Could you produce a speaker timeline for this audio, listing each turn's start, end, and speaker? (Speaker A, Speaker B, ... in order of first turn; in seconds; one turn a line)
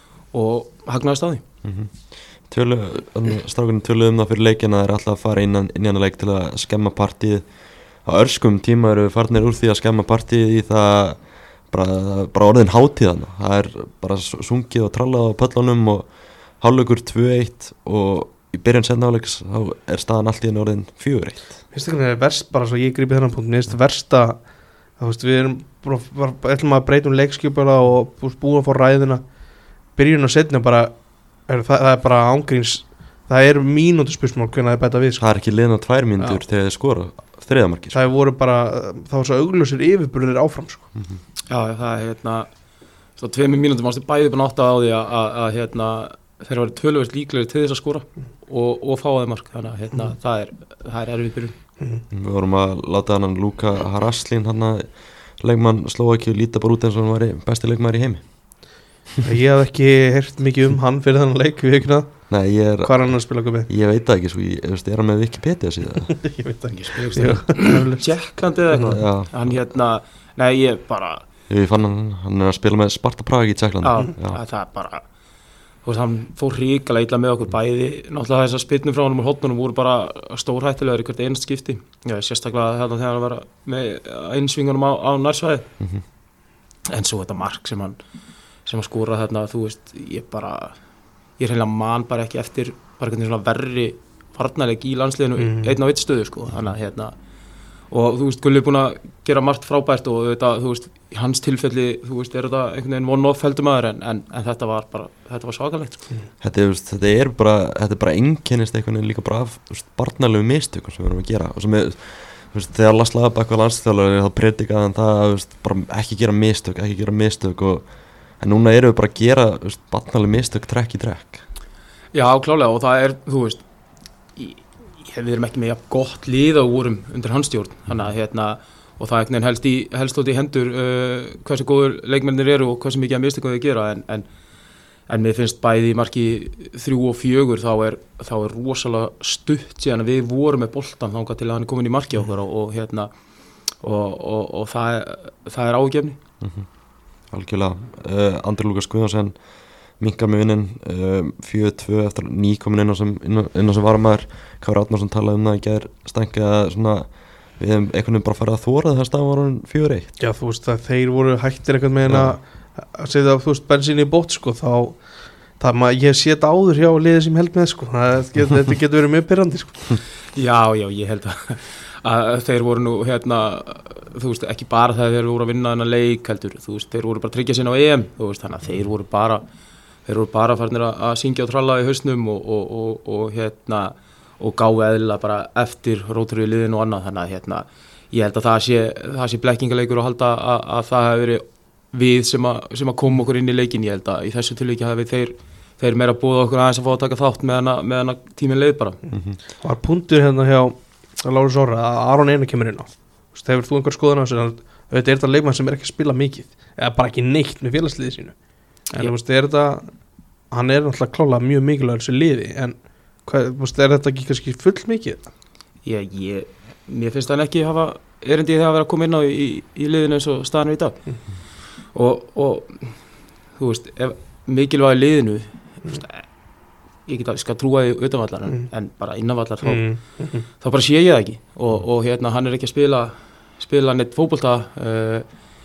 Speaker A: 0.3-1.4
Speaker B: 1.6-21.6
Speaker C: 21.7-29.3
Speaker C: 29.9-35.2
Speaker B: 35.2-38.0
Speaker C: 37.9-40.9
Speaker A: 41.5-42.5
Speaker A: 43.1-51.5
Speaker B: 52.1-58.7
Speaker C: 59.2-63.7
Speaker B: 62.3-66.2
Speaker C: 66.2-69.0
Speaker A: 66.7-71.2
Speaker B: 68.9-69.6
Speaker B: 71.5-74.4
Speaker A: 73.8-75.0
Speaker A: 75.8-85.7
Speaker A: 86.9-88.0
Speaker A: 88.6-90.8
Speaker A: 91.4-97.1
Speaker C: 95.4-95.8
Speaker A: 97.9-106.0
Speaker B: 106.4-117.9
Speaker B: 118.4-121.4
Speaker A: 122.1-123.6
Speaker A: 124.3-134.3
Speaker A: 135.1-143.1
Speaker A: 143.8-146.2
Speaker B: 146.4-146.7
Speaker B: 147.3-149.4
Speaker B: 149.9-160.1
Speaker C: 160.2-170.0
Speaker B: 162.1-162.3
Speaker A: 170.3-179.4
Speaker A: 180.1-199.0
Speaker C: 199.1-208.4
Speaker C: 208.9-209.9
Speaker C: 210.5-215.3
Speaker A: 215.8-221.0
Speaker A: 221.9-222.9
Speaker A: 223.6-226.2
Speaker A: 227.1-229.9
Speaker C: 229.6-230.4
Speaker A: 230.6-235.2